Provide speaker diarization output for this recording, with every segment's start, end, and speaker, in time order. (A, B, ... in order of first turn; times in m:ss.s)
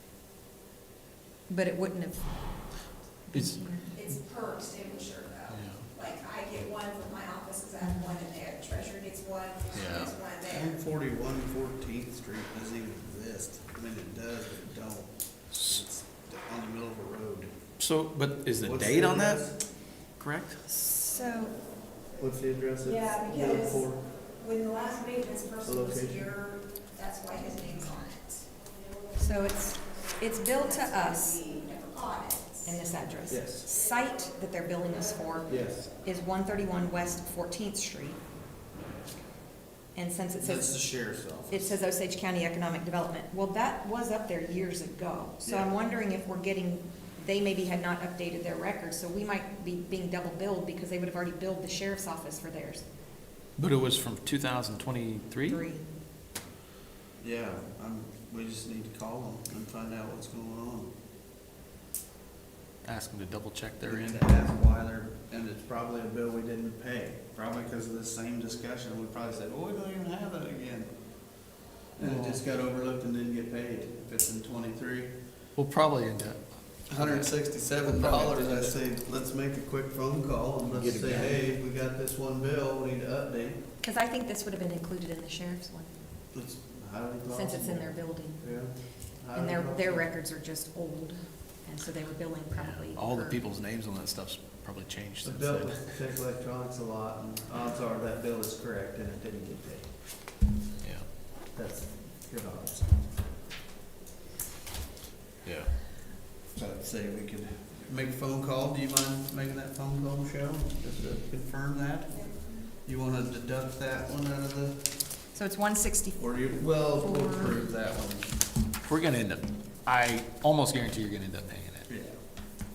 0:01.5-0:02.8 A
0:03.3-0:04.0 A
0:03.3-0:03.7 B
0:03.9-0:10.7 C
0:05.5-0:05.8 B
0:07.8-0:08.2 A
0:09.7-0:10.1 B
0:10.4-0:17.5 D
0:15.5-0:15.8 B
0:17.8-0:19.4 B
0:18.6-0:19.6 D
0:20.2-0:20.6 B
0:20.7-0:21.6 A
0:22.2-0:24.0 D
0:22.9-0:23.8 A
0:24.4-0:26.6 A
0:25.6-0:26.4 D
0:27.0-0:28.2 C
0:29.2-0:31.4 A
0:30.5-0:32.8 C
0:32.6-0:38.2 A
0:33.3-0:33.7 D
0:35.5-0:35.8 D
0:40.0-0:40.9 A
0:40.4-0:41.8 D
0:41.5-0:52.8 A
0:45.4-0:45.7 D
0:53.6-0:55.6 B
0:55.5-0:55.9 A
0:57.2-1:00.9 D
1:02.8-1:04.3 B
1:03.9-1:10.9 D
1:12.0-1:15.1 D
1:12.0-1:12.4 B
1:15.6-1:18.8 B
1:16.9-1:23.6 D
1:20.7-1:21.4 B
1:23.8-1:26.0 A
1:26.3-1:30.1 D
1:27.3-1:28.4 A
1:29.3-1:33.4 A
1:32.5-1:35.9 B
1:35.2-1:39.9 D
1:40.8-1:41.1 B
1:41.5-1:43.0 D
1:45.4-1:45.7 B
1:46.5-1:54.9 D
1:55.3-1:57.6 A
1:56.2-1:58.3 D
1:58.8-2:01.9 B
2:01.9-2:02.2 D